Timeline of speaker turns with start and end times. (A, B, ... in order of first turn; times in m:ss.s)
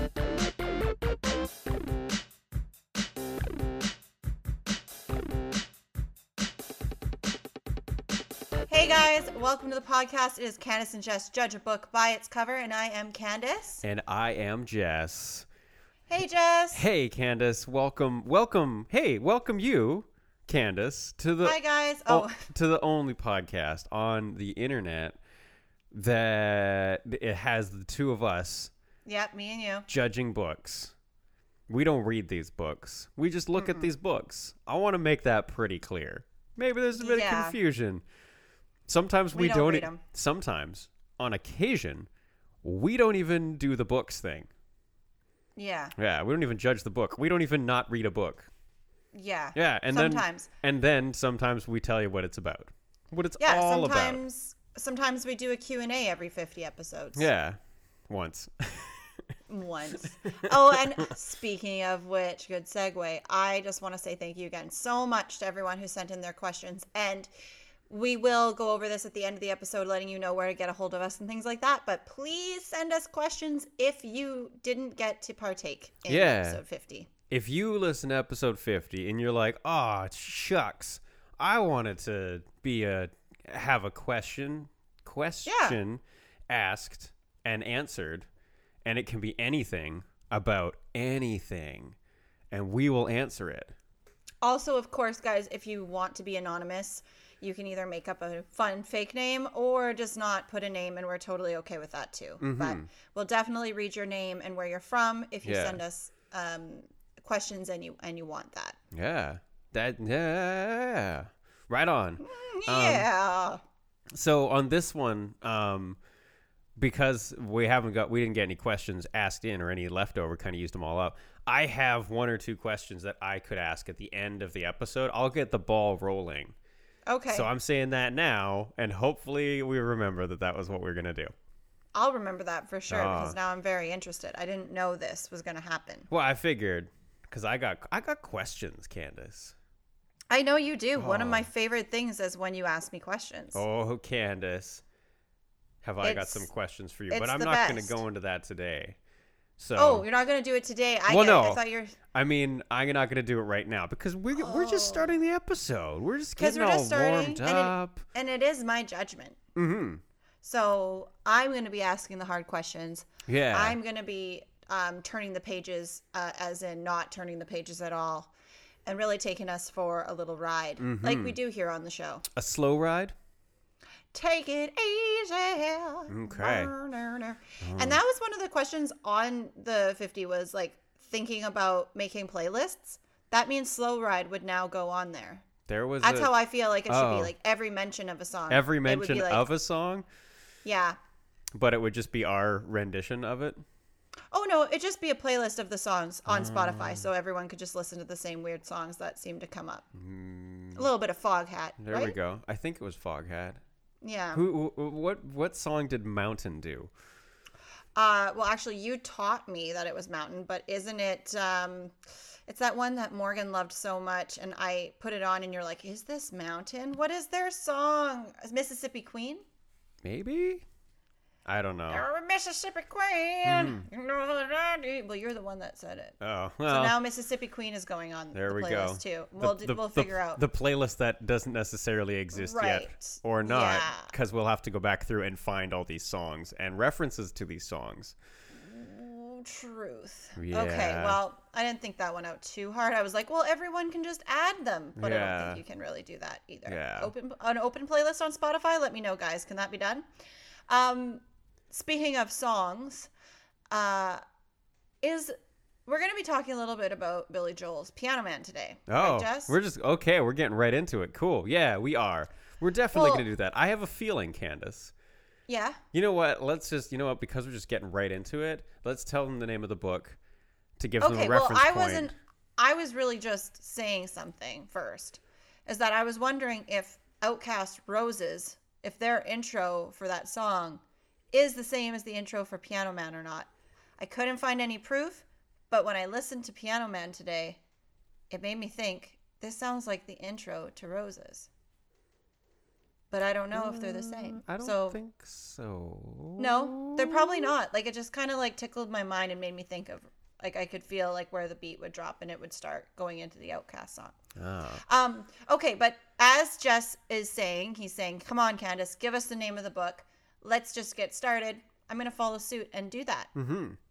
0:08.7-0:13.8 A
0:13.8-0:15.4 B
0:16.1-0:16.8 A
0:16.7-0:25.2 B
0:21.4-0:22.4 A
0:25.9-0:28.7 B
0:29.0-0:29.9 A
0:29.9-0:30.9 B
0:31.7-0:38.0 B
0:33.6-0:33.9 A
0:36.9-0:37.6 A
0:38.9-0:42.1 B
0:39.3-0:40.0 A
0:42.6-0:44.5 B
0:45.6-0:45.9 A
0:46.0-0:48.5 B
0:49.1-0:50.5 A
0:49.5-0:54.2 B
0:53.4-0:57.3 A
0:57.1-0:59.1 B
0:59.5-1:07.3 A
1:00.4-1:01.1 B
1:07.9-1:17.1 A
1:16.1-1:16.6 B
1:17.3-1:28.3 B
1:25.4-1:25.8 A
1:28.8-1:32.0 B
1:32.5-1:33.7 B
1:34.4-1:48.8 A
1:42.4-1:42.9 B
1:45.4-1:45.8 B
1:48.9-1:53.1 B
1:52.2-1:53.6 A
1:54.1-1:56.0 B
1:56.8-2:06.5 B
2:07.1-2:07.5 A
2:07.3-2:11.3 B
2:11.9-2:16.1 A
2:12.9-2:13.4 B
2:16.1-2:19.5 B
2:20.3-2:23.6 A
2:21.0-2:21.5 B
2:23.5-2:24.8 B
2:25.8-2:29.0 B
2:26.0-2:26.5 A
2:27.1-2:28.0 A
2:29.6-2:30.0 B
2:29.8-2:32.0 A
2:31.1-2:38.0 B
2:34.3-2:35.1 A
2:36.4-2:39.4 A
2:39.5-2:40.0 B
2:40.4-2:48.3 A
2:43.3-2:43.8 B
2:48.8-2:52.2 A
2:50.8-2:51.4 B
2:52.3-2:53.1 B
2:54.1-3:05.4 A
2:56.1-2:56.7 B
2:57.6-2:58.0 B
3:05.7-3:06.3 B
3:06.0-3:09.5 A
3:06.9-3:07.3 B
3:08.5-3:10.0 B
3:10.6-3:11.0 A
3:11.5-3:13.6 B
3:14.3-3:19.9 A
3:16.3-3:17.1 B
3:19.9-3:20.9 B
3:20.7-3:22.2 A
3:21.8-3:23.6 B
3:24.0-3:24.4 A
3:24.3-3:26.9 B
3:28.0-3:32.0 A
3:32.5-3:39.4 A
3:40.0-3:40.6 B
3:41.4-3:42.0 B
3:41.9-3:50.4 A
3:43.4-3:43.8 B
3:46.2-3:47.0 B
3:48.3-3:58.2 B
3:52.3-3:54.1 A
3:58.6-4:10.0 A
4:00.4-4:01.2 B
4:05.0-4:05.6 B
4:06.7-4:07.1 B
4:10.7-4:13.1 A
4:13.7-4:14.2 A
4:15.0-4:15.3 A
4:15.8-4:19.6 A
4:18.9-4:24.9 B
4:22.9-4:23.3 A
4:25.5-4:25.8 A
4:25.9-4:30.2 B
4:30.8-4:32.1 B
4:31.0-4:47.6 A
4:48.3-4:51.5 A
4:53.1-4:55.0 A
4:53.5-4:57.5 B
4:56.4-5:04.2 A
5:04.4-5:04.8 B
5:04.8-5:13.3 A
5:13.3-5:13.8 B